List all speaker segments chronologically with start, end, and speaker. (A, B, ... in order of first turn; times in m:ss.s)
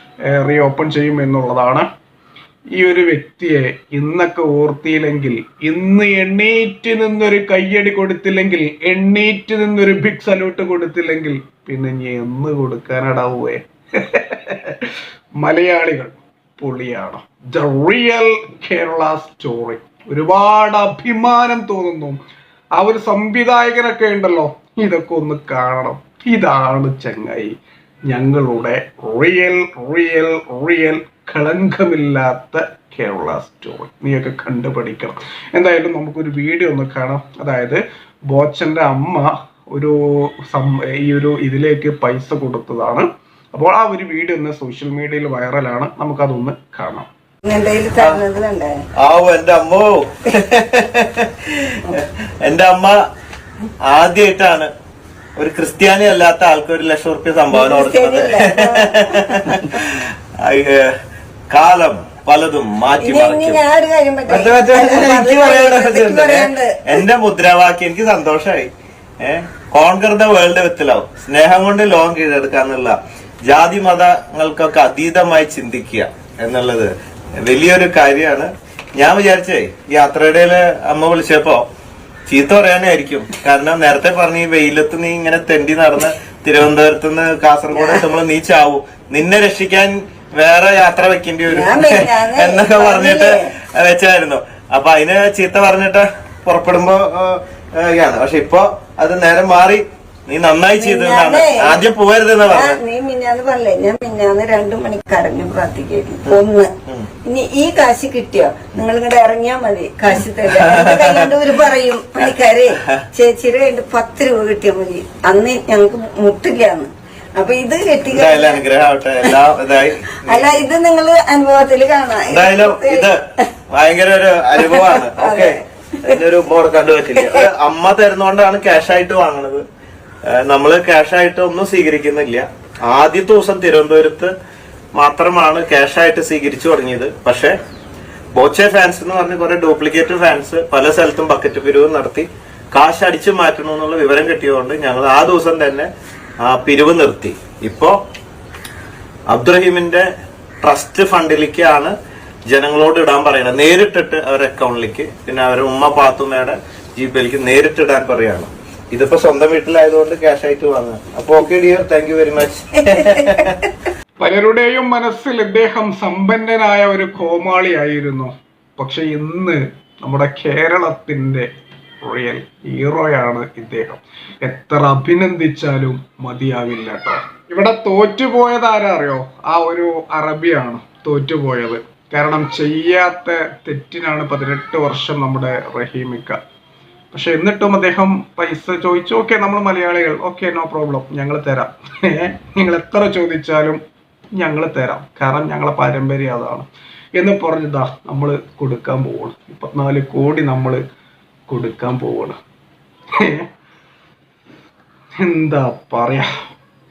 0:00.3-0:01.9 A
0:02.7-0:14.9 A
0:15.4-0:22.2 A
0:22.7-0:27.5 A
0:28.1-0:47.1 A
0:47.4-0:48.7 B
0:49.0-0:53.0 C
0:53.9-0:54.7 C
0:55.4-1:00.9 C
0:57.5-0:59.7 B
1:01.5-1:03.6 C
1:03.0-1:07.0 B
1:04.3-1:16.9 C
1:17.4-1:21.6 C
1:22.3-1:42.8 C
1:27.7-1:28.0 B
1:31.5-1:33.5 B
1:40.8-1:41.8 B
1:42.5-1:46.7 B
1:46.2-1:47.1 C
1:47.2-1:58.6 B
1:50.4-1:51.7 C
1:52.2-1:53.0 C
1:58.0-2:00.7 C
2:00.2-2:03.1 B
2:02.3-2:03.2 C
2:03.7-2:09.6 C
2:04.6-2:06.2 B
2:07.2-2:07.4 B
2:10.3-2:14.3 C
2:14.9-2:17.5 C
2:18.3-2:25.9 C
2:26.4-2:28.0 C
2:29.3-2:30.0 C
2:30.6-2:31.9 C
2:32.5-2:43.5 C
2:42.8-2:43.5 B
2:44.2-2:51.5 A
2:52.0-3:06.4 A
3:07.1-3:13.8 A
3:14.4-3:20.8 A
3:21.5-3:22.4 A
3:23.2-3:23.4 A
3:25.2-3:26.3 A